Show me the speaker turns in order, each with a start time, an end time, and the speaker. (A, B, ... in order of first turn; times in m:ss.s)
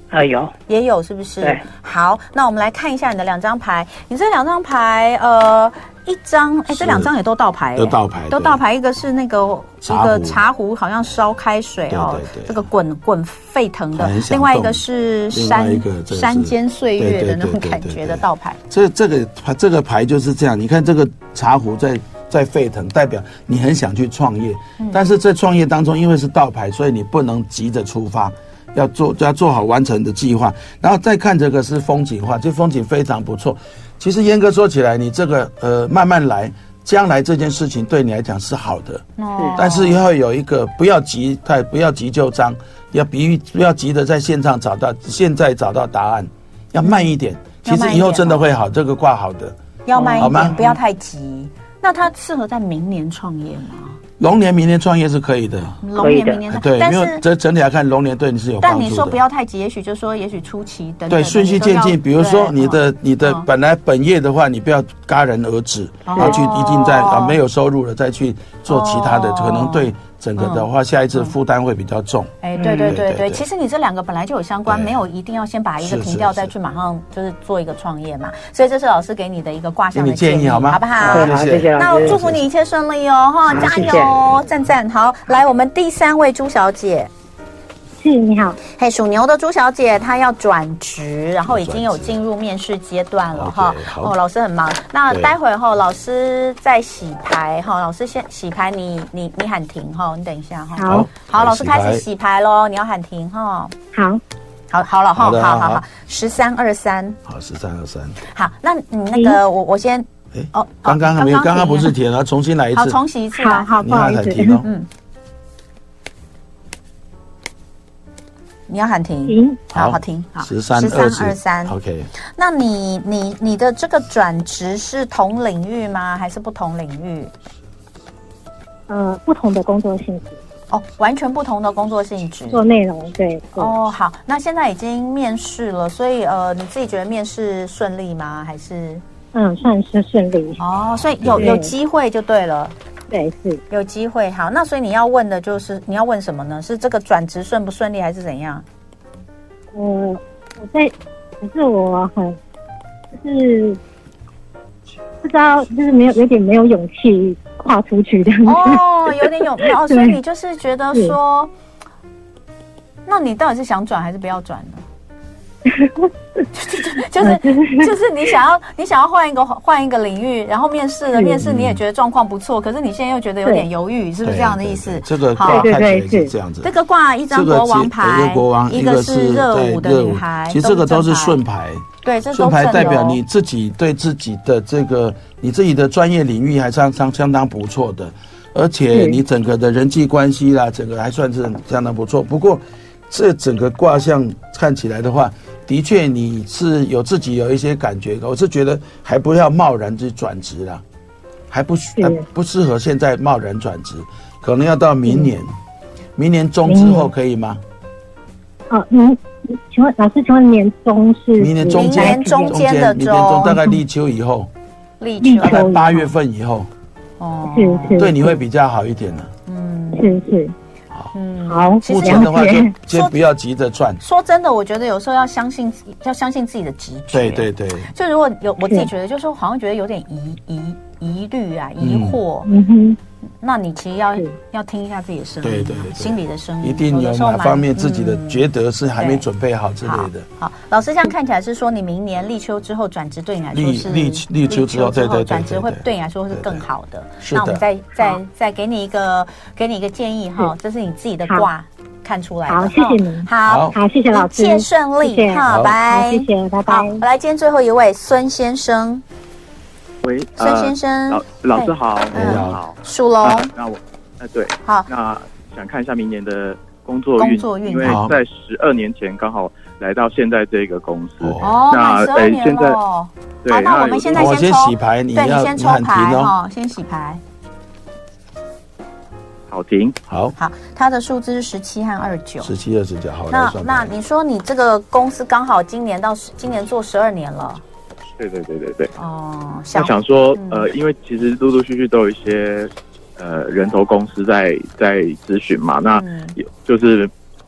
0:00.1-0:00.5 A
0:00.7-0:18.6 B
0:06.7-0:07.1 C
0:07.8-0:08.6 C
0:09.8-0:10.4 C
0:11.9-0:12.6 C
0:14.0-0:49.6 C
0:39.2-0:40.0 B
0:47.6-0:48.4 B
0:49.8-0:54.0 B
0:49.9-0:50.8 A
0:50.2-0:50.6 C
0:54.2-0:55.8 C
0:55.8-0:57.2 B
0:56.0-0:56.4 A
0:56.5-0:59.2 C
0:58.6-1:03.5 B
1:01.1-1:13.4 C
1:06.0-1:07.4 B
1:06.1-1:06.4 A
1:08.7-1:11.3 B
1:12.4-1:27.1 B
1:12.6-1:13.0 A
1:14.7-1:15.0 C
1:15.8-1:16.5 C
1:19.9-1:22.4 C
1:21.0-1:22.2 A
1:23.5-1:24.4 C
1:23.5-1:24.1 A
1:28.0-1:28.6 D
1:28.7-1:43.7 B
1:31.5-1:32.2 C
1:33.3-1:34.1 C
1:35.1-1:35.4 C
1:40.8-1:41.1 D
1:40.9-1:42.0 C
1:43.9-1:44.2 D
1:44.7-1:47.2 B
1:45.1-1:45.8 C
1:47.2-1:48.2 C
1:48.3-1:52.0 B
1:49.1-1:49.4 D
1:50.3-1:53.0 C
1:52.7-1:53.7 B
1:53.3-1:54.6 D
1:53.8-1:54.7 C
1:58.7-2:01.7 B
1:59.3-1:59.6 D
1:59.7-2:02.1 C
2:02.4-2:07.3 B
2:08.9-2:10.4 D
2:10.7-2:12.6 B
2:12.5-2:13.7 D
2:13.6-2:19.0 B
2:19.3-2:20.6 D
2:20.6-2:22.7 B
2:20.7-2:21.6 C
2:21.4-2:21.7 D
2:23.1-2:23.6 D
2:23.7-2:28.6 B
2:29.7-2:32.4 D
2:33.2-2:33.8 D
2:35.2-2:40.2 D
2:38.4-2:41.5 B
2:43.0-2:44.8 B
2:45.7-2:46.4 D
2:46.5-2:55.7 B
2:47.2-2:47.9 D
2:51.1-2:51.4 D
2:51.4-2:51.8 C
2:54.2-2:56.7 C
2:55.4-2:56.3 D
2:56.6-3:01.4 B
2:57.3-3:20.8 C
3:02.0-3:03.2 B
3:08.9-3:09.2 D
3:21.5-3:25.5 C
3:22.0-3:22.2 D
3:26.2-3:27.6 C
3:26.7-3:27.1 D
3:28.7-3:32.6 D
3:31.4-3:34.5 C
3:31.7-3:33.6 B
3:33.4-3:33.8 D
3:35.0-3:35.7 B
3:35.2-3:36.1 D
3:35.4-3:36.7 C
3:37.2-3:38.1 B
3:37.4-3:38.4 D
3:38.0-3:39.3 C
3:39.4-3:40.2 B
3:39.9-3:40.5 D
3:41.1-3:43.2 B
3:41.5-3:42.7 D
3:41.8-3:44.0 C
3:44.0-3:52.5 B
3:47.1-3:47.9 C
3:51.8-3:52.2 C
3:52.4-3:53.0 D
3:53.4-3:58.4 B
3:55.4-4:00.2 C
3:59.0-3:59.2 B
3:59.8-4:19.0 B
4:03.5-4:06.6 C
4:07.2-4:07.6 C
4:12.5-4:17.0 D
4:13.5-4:13.8 C
4:15.5-4:15.8 C
4:20.0-4:32.8 E
4:20.4-4:23.5 B
4:22.1-4:22.6 C
4:27.2-4:28.1 B
4:27.8-4:28.2 C
4:31.2-4:31.6 C
4:31.4-4:37.2 B
4:33.4-4:34.4 E
4:34.1-4:36.3 C
4:39.5-4:40.0 E
4:40.1-4:40.4 C
4:40.4-4:42.5 B
4:42.4-4:43.9 C
4:43.3-4:47.6 B
4:48.2-4:48.9 E
4:49.0-4:50.7 B
4:49.7-4:57.1 E
4:56.0-4:56.4 B